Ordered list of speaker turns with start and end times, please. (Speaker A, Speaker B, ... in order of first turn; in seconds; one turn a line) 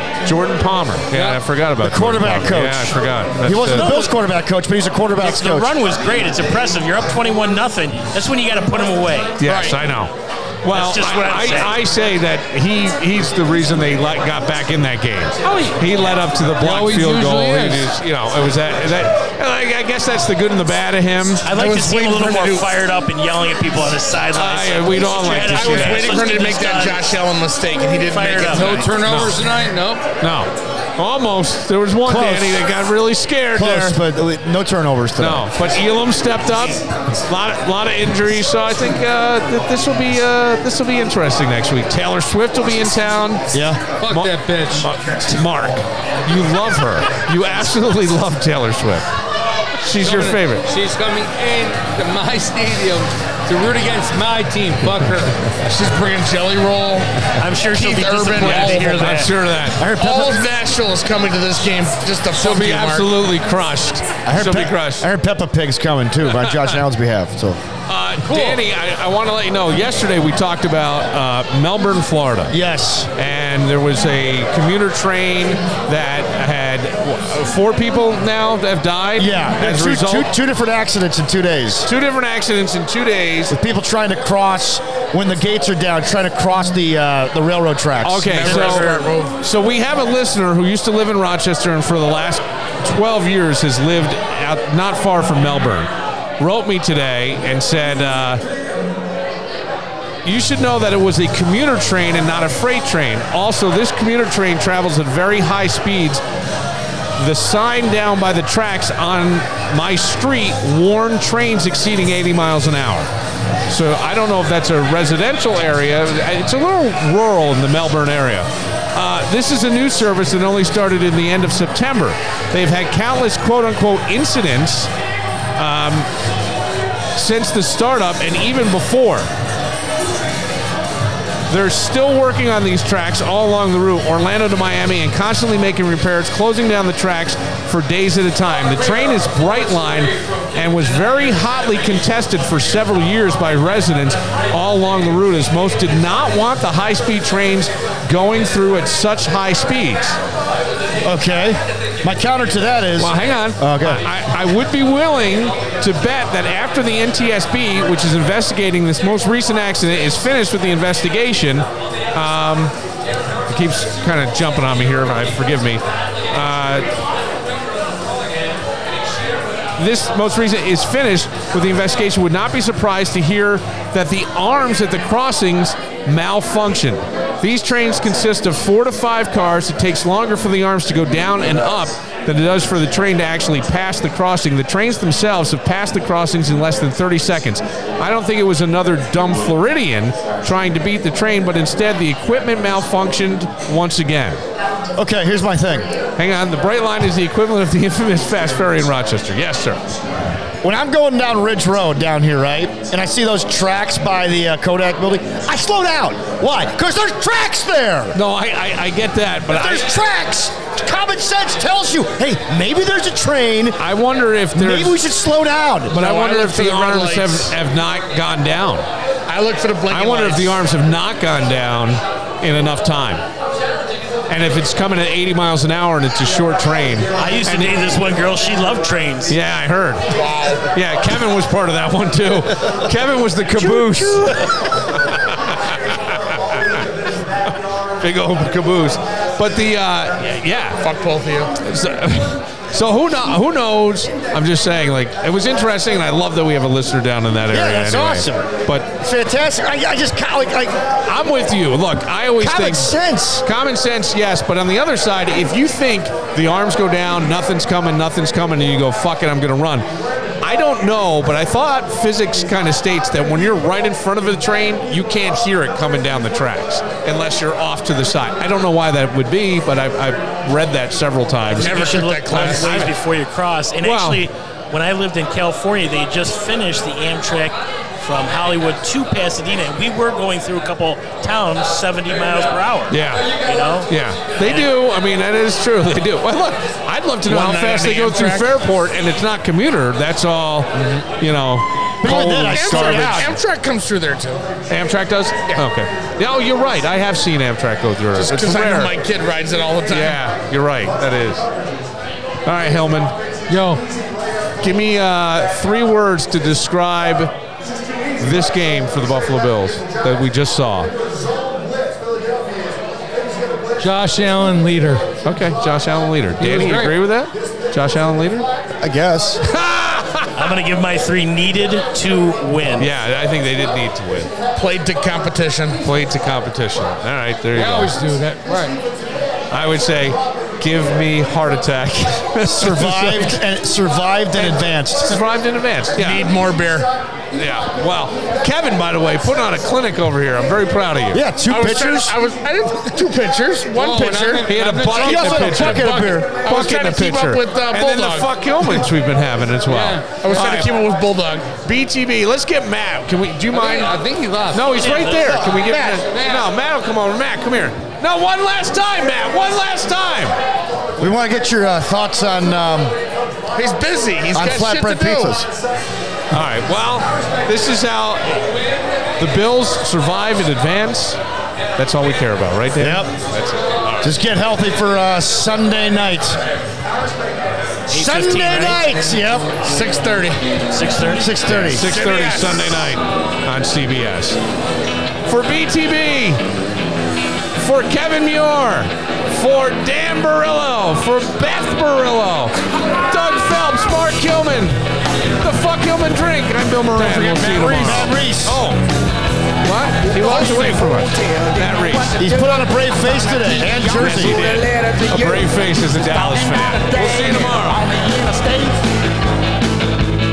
Speaker A: 0.2-4.0
Speaker B: 1.1-1.4
Speaker C: 1.8-5.7
Speaker D: 3.7-4.1
Speaker D: 5.2-9.4
Speaker A: 9.4-21.5
Speaker E: 9.4-9.8
Speaker D: 10.7-11.7
Speaker D: 15.4-15.8
Speaker B: 16.6-17.9
Speaker D: 21.4-27.0
Speaker E: 21.5-22.6
Speaker A: 24.3-26.2
Speaker E: 25.4-28.9
Speaker D: 28.1-28.9
Speaker B: 28.5-30.0
Speaker A: 29.0-29.3
Speaker A: 30.2-34.0
Speaker C: 32.0-32.7
Speaker C: 33.5-35.5
Speaker A: 35.2-43.5
Speaker C: 43.5-43.8
Speaker B: 44.0-44.9
Speaker A: 44.1-49.0
Speaker A: 49.8-50.6
Speaker B: 50.0-55.5
Speaker E: 55.6-57.1
Speaker D: 57.4-59.3
Speaker E: 57.7-59.3
Speaker A: 58.5-59.8
Speaker C: 59.8-60.4
Speaker E: 59.9-63.1
Speaker A: 62.4-65.1
Speaker C: 64.2-67.6
Speaker A: 67.9-72.5
Speaker B: 68.2-68.6
Speaker C: 72.5-73.1
Speaker A: 73.1-80.3
Speaker C: 79.2-81.9
Speaker A: 81.8-83.5
Speaker C: 83.5-88.8
Speaker A: 88.0-98.4
Speaker E: 88.2-89.3
Speaker D: 88.5-89.1
Speaker A: 100.2-106.2
Speaker A: 107.2-113.1
Speaker A: 113.7-124.9
Speaker A: 125.5-126.1
Speaker A: 127.1-129.3
Speaker A: 131.5-150.2
Speaker C: 151.0-154.1
Speaker A: 153.0-162.7
Speaker A: 163.5-166.9
Speaker A: 169.8-194.4
Speaker C: 194.9-195.9
Speaker A: 196.2-199.8
Speaker C: 200.6-208.2
Speaker A: 208.1-209.9
Speaker C: 209.5-213.8
Speaker A: 213.8-215.0
Speaker C: 214.5-215.9
Speaker A: 215.9-218.9
Speaker E: 215.9-217.5
Speaker E: 219.3-220.5
Speaker A: 219.9-223.2
Speaker A: 224.3-227.9
Speaker D: 227.2-229.3
Speaker A: 229.3-230.1
Speaker E: 230.1-230.7
Speaker A: 230.7-236.8
Speaker C: 233.6-234.3
Speaker A: 237.5-240.8
Speaker E: 240.8-241.5
Speaker A: 241.6-248.9
Speaker C: 247.5-250.8
Speaker A: 251.1-259.9
Speaker C: 252.4-253.4
Speaker A: 260.4-272.9
Speaker E: 271.6-272.7
Speaker D: 271.6-284.7
Speaker A: 273.8-274.2
Speaker A: 282.9-293.4
Speaker E: 287.2-288.5
Speaker C: 292.0-293.3
Speaker E: 292.1-294.4
Speaker A: 294.7-298.9
Speaker E: 298.1-300.2
Speaker A: 299.9-301.4
Speaker A: 302.4-303.1
Speaker B: 303.5-303.8
Speaker A: 304.6-307.3
Speaker A: 308.2-310.9
Speaker B: 313.8-315.0
Speaker A: 315.2-318.5
Speaker B: 316.4-317.0
Speaker C: 318.8-319.4
Speaker A: 319.4-320.4
Speaker D: 320.4-322.9
Speaker A: 322.8-324.3
Speaker E: 324.6-325.8
Speaker A: 325.8-327.9
Speaker B: 327.5-328.8
Speaker A: 329.5-333.4
Speaker C: 332.4-335.1
Speaker A: 335.1-336.3
Speaker E: 335.9-336.9
Speaker A: 337.3-341.2
Speaker C: 341.1-342.1
Speaker E: 341.5-344.5
Speaker B: 343.8-345.9
Speaker A: 344.4-350.7
Speaker C: 344.9-346.4
Speaker E: 345.8-348.7
Speaker B: 349.7-350.1
Speaker E: 350.1-351.5
Speaker A: 351.6-353.9
Speaker B: 353.5-354.7
Speaker A: 354.5-360.4
Speaker D: 354.7-355.5
Speaker C: 355.6-356.0
Speaker B: 356.1-356.5
Speaker C: 361.0-362.9
Speaker E: 363.5-365.4
Speaker C: 364.3-365.4
Speaker A: 366.3-368.4
Speaker A: 369.2-371.2
Speaker A: 371.8-374.1
Speaker C: 372.8-373.1
Speaker C: 374.0-376.4
Speaker D: 377.9-378.9
Speaker C: 377.9-379.5
Speaker E: 379.6-380.4
Speaker D: 380.7-381.4
Speaker C: 381.1-381.9
Speaker A: 381.5-384.4
Speaker E: 381.7-382.6
Speaker A: 385.2-386.4
Speaker A: 387.6-392.5
Speaker A: 393.1-394.8
Speaker A: 395.4-398.8
Speaker E: 397.0-398.0
Speaker C: 397.6-398.6
Speaker A: 399.6-402.2
Speaker F: 399.9-408.8
Speaker C: 402.2-404.4
Speaker A: 403.8-407.8